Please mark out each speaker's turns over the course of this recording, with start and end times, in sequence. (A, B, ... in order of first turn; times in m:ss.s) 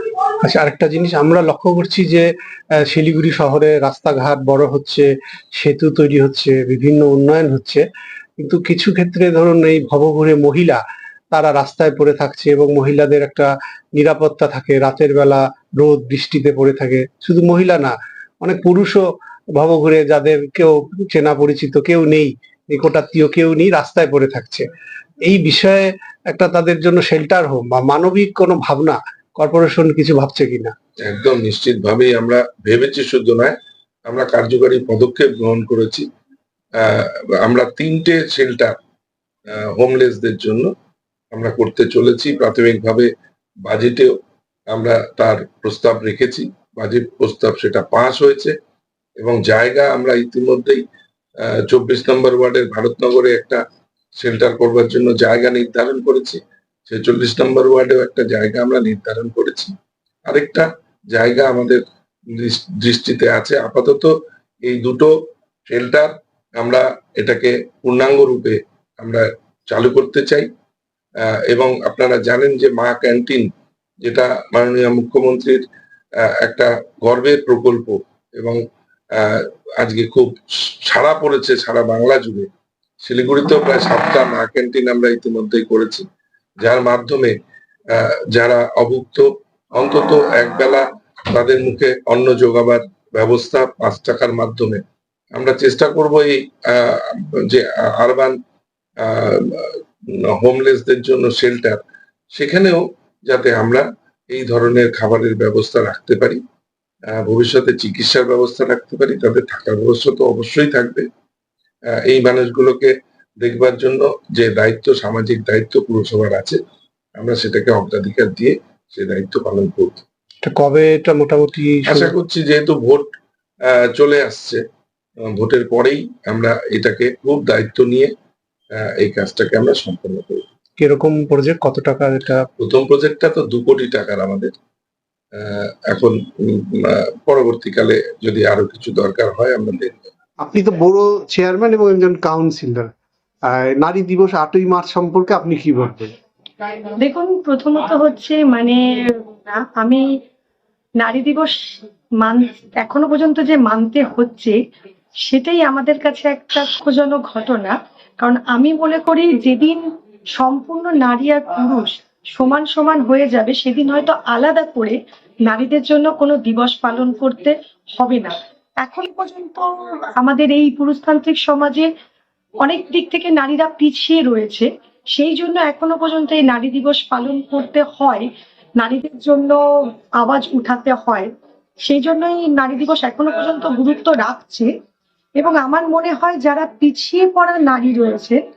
0:00.4-0:02.3 A
0:02.8-0:07.8 A
0:08.4-0:19.0 A
0:19.6-0:24.7 A
0:25.2-0:30.7 A
0:31.0-0:33.6 B
0:34.1-0:36.1 B
0:36.8-0:38.7 B
0:39.7-0:40.7 B
0:41.3-0:43.1 B
0:43.7-0:44.1 B
0:44.7-0:48.5 B
0:49.2-0:50.8 B
0:51.7-0:53.6 B
0:54.2-0:59.7 B
1:00.3-1:01.8 B
1:02.4-1:04.1 B
1:04.6-1:05.1 B
1:05.7-1:10.5 B
1:11.5-1:13.5 B
1:14.0-1:15.6 B
1:16.3-1:18.6 B
1:19.2-1:22.5 B
1:23.0-1:26.0 B
1:26.6-1:27.3 B
1:28.0-1:34.8 B
1:35.4-1:38.4 B
1:39.0-1:39.8 B
1:40.4-1:41.8 B
1:42.4-1:46.4 B
1:47.1-1:51.1 B
1:52.0-1:56.6 B
1:57.2-2:00.0 B
2:00.4-2:02.1 A
2:01.9-2:03.1 B
2:03.7-2:04.6 B
2:05.3-2:08.1 B
2:08.8-2:10.4 B
2:10.8-2:12.4 A
2:12.6-2:14.5 B
2:15.4-2:20.0 B
2:20.4-2:22.9 A
2:23.5-2:26.1 A
2:27.0-2:28.8 C
2:29.5-2:30.0 C
2:31.0-2:34.6 C
2:35.2-2:39.8 C
2:40.4-2:45.0 C
2:45.5-2:51.9 C
2:52.6-2:58.3 C
2:58.8-2:59.6 C
3:00.2-3:01.3 C
3:01.8-3:04.7 C
3:05.4-3:08.4 C